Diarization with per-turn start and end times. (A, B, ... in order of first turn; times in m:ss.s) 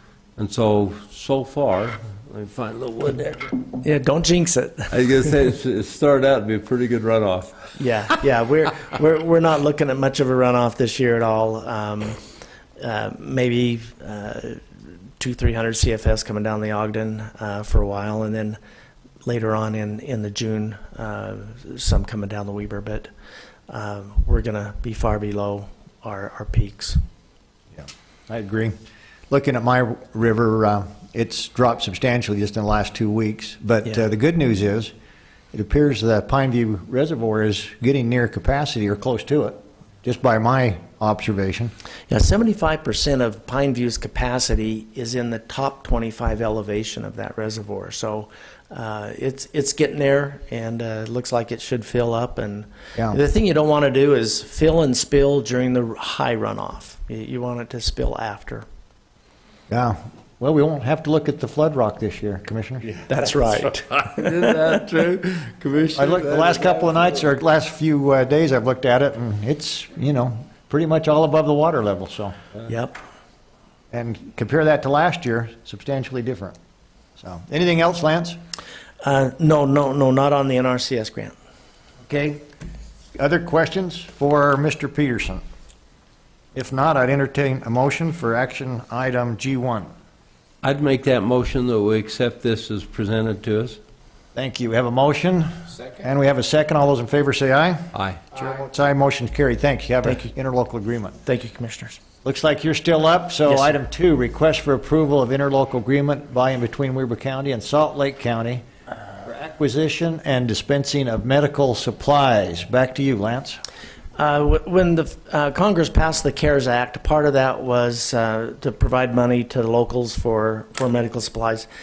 0:00.4-0:03.5 A
0:03.8-0:04.9 B
0:04.9-0:07.7 A
0:07.8-0:12.2 B
0:12.8-0:14.6 B
0:15.2-0:18.6 B
0:19.2-0:23.1 B
0:23.7-0:27.0 B
0:27.8-0:28.7 C
0:29.3-0:34.9 C
0:35.5-0:41.7 C
0:42.1-0:58.7 B
0:59.7-1:02.9 C
1:03.1-1:04.6 B
1:03.9-1:07.3 A
1:06.0-1:12.4 C
1:12.7-1:13.0 B
1:13.9-1:16.6 C
1:17.2-1:18.4 C
1:19.0-1:21.3 B
1:22.1-1:22.4 C
1:23.2-1:25.4 C
1:26.5-1:29.9 C
1:30.6-1:33.8 A
1:34.4-1:41.2 C
1:37.9-1:38.2 A
1:40.0-1:40.3 B
1:41.2-1:42.0 B
1:42.2-1:48.6 C
1:43.5-1:43.7 B
1:49.2-1:53.6 C
1:54.2-2:01.7 B